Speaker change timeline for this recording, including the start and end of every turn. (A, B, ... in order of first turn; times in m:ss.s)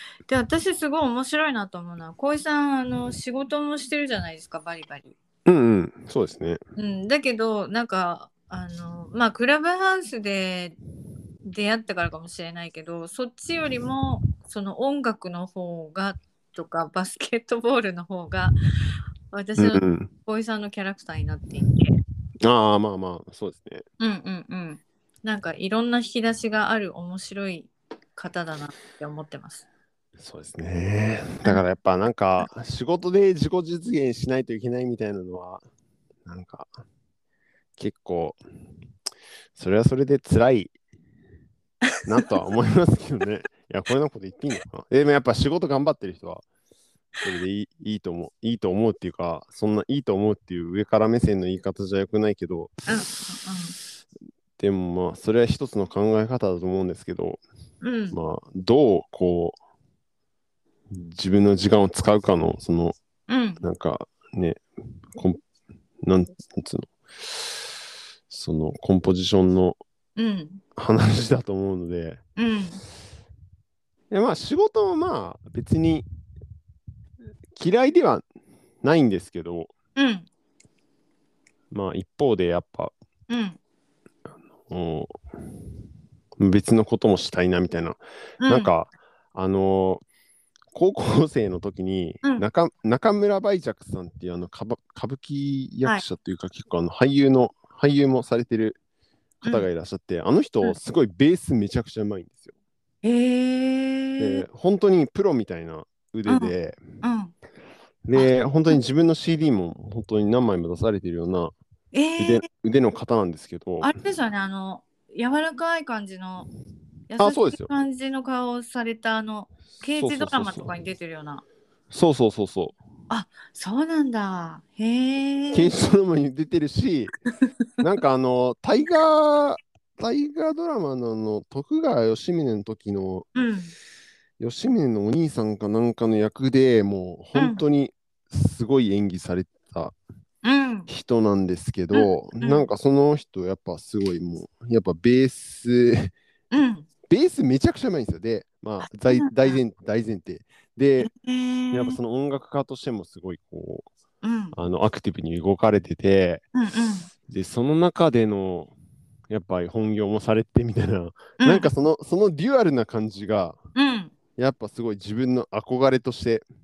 0:00.3-0:05.2 A
0:05.5-0:06.6 B
0:06.8-0:10.8 A
0:11.4-0:18.6 A
0:19.3-0:22.0 A
0:19.6-0:20.1 B
0:22.4-0:23.8 B
0:24.0-0:29.7 A
0:30.2-0:35.6 B
0:36.3-0:36.7 B
0:37.8-0:38.4 B
0:39.6-0:40.8 B
0:42.1-0:46.4 B
0:47.2-0:52.7 B
0:52.9-0:53.8 A
0:54.6-0:57.4 B
0:57.8-0:58.2 A
0:58.1-0:59.6 B
1:00.9-1:03.0 B
1:03.3-1:03.6 A
1:03.6-1:05.4 B
1:06.0-1:06.9 B
1:08.3-1:09.8 B
1:10.2-1:10.6 A
1:10.8-1:12.2 B
1:12.4-1:12.8 A
1:14.1-1:16.1 B
1:17.6-1:18.2 B
1:18.8-1:19.7 B
1:20.0-1:20.3 A
1:21.7-1:22.9 B
1:23.3-1:23.6 A
1:24.7-1:25.2 B
1:26.4-1:30.0 B
1:28.4-1:28.7 A
1:30.7-1:38.8 B
1:39.4-1:39.7 A
1:39.4-1:42.5 B
1:43.0-1:44.4 A
1:44.2-1:46.8 B
1:46.3-1:47.3 A
1:48.1-1:51.5 B
1:48.2-1:48.8 A
1:51.9-1:52.4 A
1:52.2-1:53.9 B
1:53.8-1:56.5 A
1:57.1-2:01.4 A
1:57.2-1:57.7 B
1:59.8-2:00.7 B
2:01.9-2:02.8 B
2:03.1-2:05.7 A
2:05.5-2:07.2 B
2:07.8-2:13.3 B
2:13.4-2:13.7 A
2:14.4-2:20.0 B
2:17.4-2:17.6 A
2:20.4-2:20.9 A
2:20.9-2:26.1 B
2:21.9-2:22.7 A
2:26.5-2:26.9 A
2:27.1-2:31.1 B
2:28.8-2:29.6 A
2:31.0-2:32.0 A
2:31.7-2:33.9 B
2:34.2-2:34.6 A
2:34.5-2:36.4 B
2:36.6-2:37.1 A
2:37.3-2:38.7 B
2:39.3-2:43.6 B
2:41.4-2:41.7 A
2:43.8-2:44.1 A
2:44.4-2:46.4 B